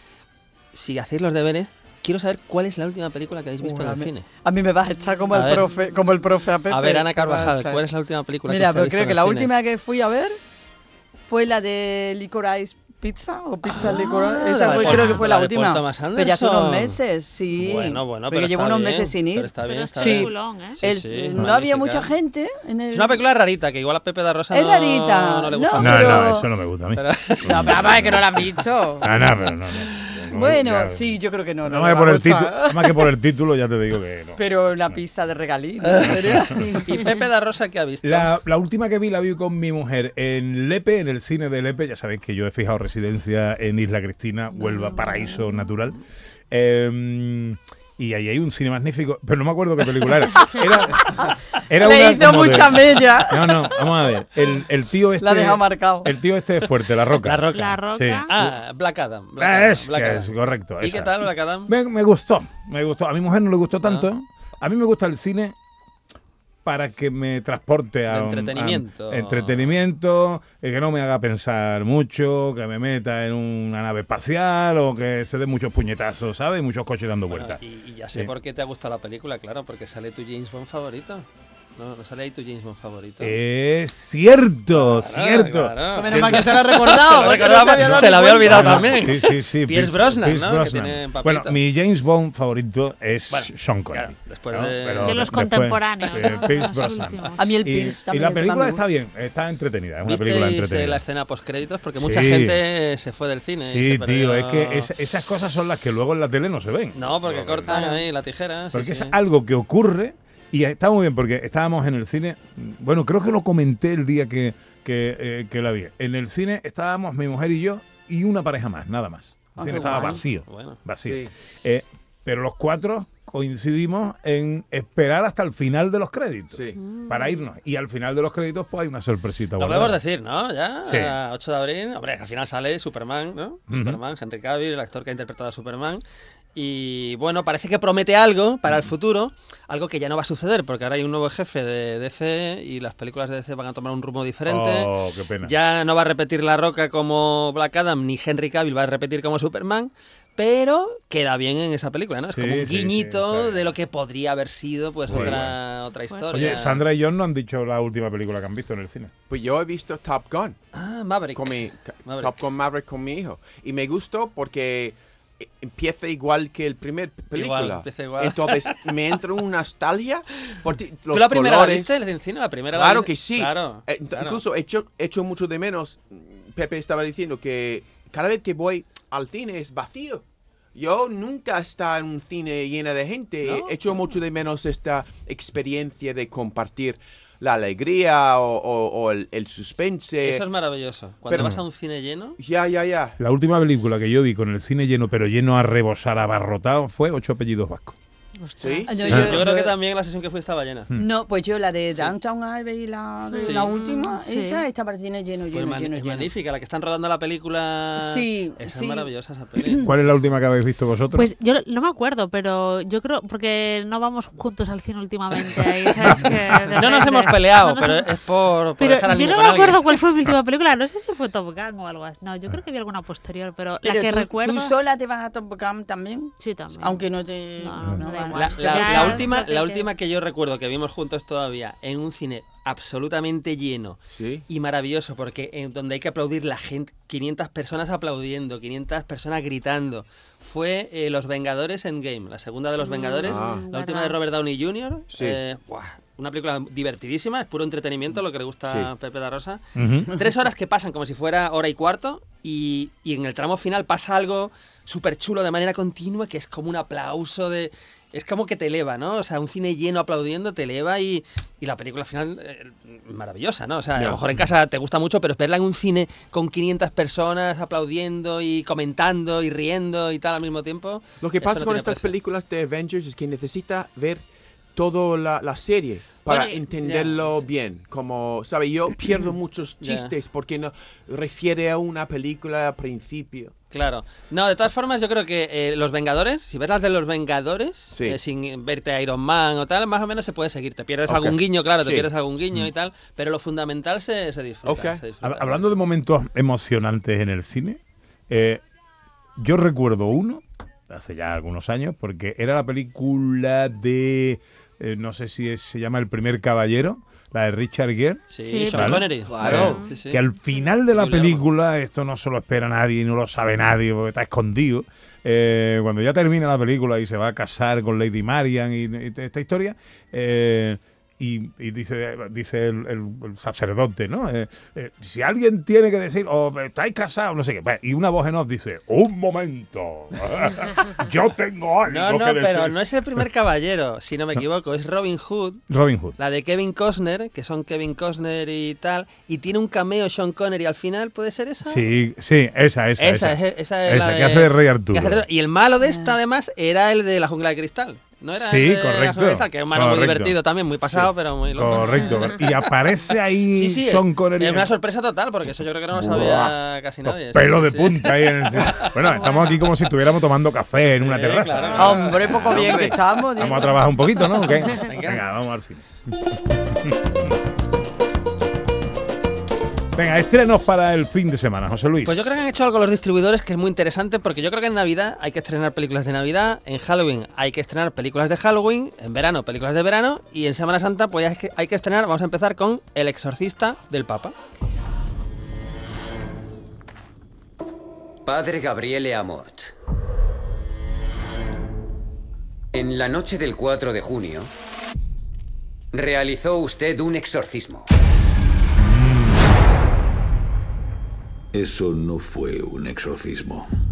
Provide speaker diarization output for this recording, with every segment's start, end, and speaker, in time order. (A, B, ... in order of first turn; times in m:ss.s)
0:00.7-0:04.3 A
0:03.6-0:07.8 B
0:05.3-0:05.7 A
0:06.7-0:09.5 A
0:08.4-0:10.4 B
0:11.3-0:23.2 B
0:13.7-0:17.0 A
0:14.9-0:15.2 C
0:17.5-0:22.1 A
0:19.6-0:20.8 C
0:22.9-0:27.6 A
0:24.5-0:26.5 B
0:25.8-0:31.1 D
0:27.5-0:29.2 B
0:30.4-0:33.2 B
0:31.6-0:34.4 D
0:34.4-0:37.0 B
0:35.8-0:38.3 A
0:36.1-0:36.5 D
0:38.0-0:46.0 D
0:44.6-0:45.7 C
0:46.5-0:58.5 D
0:50.8-0:54.0 B
0:55.2-0:56.1 B
0:57.2-1:01.7 A
0:57.5-0:58.3 C
0:59.4-1:05.5 D
1:06.6-1:17.6 D
1:08.1-1:09.8 A
1:17.3-1:21.2 A
1:21.8-1:23.4 A
1:23.2-1:25.8 D
1:24.7-1:31.6 A
1:25.9-1:28.9 B
1:28.4-1:41.0 D
1:33.3-1:35.3 A
1:35.0-1:37.5 C
1:36.0-1:36.9 A
1:37.4-1:38.9 B
1:40.0-1:44.9 A
1:42.0-1:42.6 D
1:43.6-1:47.8 D
1:46.9-1:49.2 A
1:47.7-1:48.1 B
1:48.7-2:10.0 D
1:59.6-2:00.2 B
1:59.6-2:00.8 A
2:01.0-2:01.3 E
2:06.5-2:06.8 E
2:06.8-2:07.4 C
2:09.6-2:16.0 A
2:10.8-2:11.2 D
2:13.7-2:14.0 D
2:16.5-2:24.9 A
2:24.4-2:25.5 D
2:25.4-2:36.8 A
2:32.3-2:33.7 D
2:35.1-2:35.5 E
2:35.1-2:35.6 D
2:36.1-2:36.5 C
2:36.3-2:39.1 D
2:39.3-2:40.6 E
2:40.7-2:42.4 A
2:41.3-2:51.9 E
2:47.3-2:48.7 A
2:51.1-2:54.4 A
2:52.7-3:00.2 E
3:00.8-3:10.4 E
3:03.4-3:03.9 A
3:10.2-3:12.4 A
3:11.3-3:11.6 E
3:12.4-3:13.2 E
3:13.2-3:18.0 D
3:18.4-3:18.8 C
3:18.6-3:19.1 E
3:18.8-3:19.7 B
3:19.0-3:20.9 A
3:19.1-3:19.4 D
3:20.9-3:26.3 B
3:23.3-3:24.7 C
3:23.4-3:23.7 A
3:25.5-3:30.3 A
3:28.0-3:29.1 B
3:29.8-3:31.3 D
3:31.2-3:38.1 C
3:36.8-3:40.0 A
3:38.8-3:44.7 C
3:43.8-3:49.3 B
3:46.4-3:49.9 C
3:48.3-3:54.0 A
3:54.1-3:54.4 E
3:54.5-4:32.2 A
4:02.8-4:04.2 C
4:03.2-4:03.6 E
4:05.1-4:05.4 E
4:08.6-4:08.9 E
4:09.7-4:10.1 D
4:24.0-4:24.2 E
4:31.2-4:34.2 E
4:34.8-4:43.5 E
4:36.3-4:37.4 A
4:36.3-4:36.6 C
4:39.8-4:40.1 A
4:43.7-4:55.7 A
4:51.1-4:52.1 E
4:54.6-4:55.0 E
4:55.2-4:58.6 D
4:59.4-5:32.8 D
5:08.3-5:10.2 A
5:08.4-5:09.9 C
5:09.3-5:09.7 E
5:10.9-5:11.5 A
5:31.9-5:35.6 A
5:35.7-5:36.2 D
5:36.2-5:41.9 A
5:41.6-5:45.2 D
5:43.0-5:52.5 A
5:45.9-5:46.1 B
5:48.4-5:54.7 D
5:51.8-5:52.3 C
5:53.5-5:59.6 A
5:55.9-5:56.6 D
5:57.1-6:02.3 D
6:00.9-6:02.5 A
6:01.6-6:02.0 C
6:01.8-6:04.0 B
6:02.2-6:03.0 E
6:03.4-6:07.1 D
6:04.5-6:05.2 A
6:10.0-6:12.3 D
6:12.0-6:24.3 A
6:28.2-6:29.7 F
6:32.7-6:34.5 F
6:35.9-6:37.9 F
6:41.5-6:43.7 G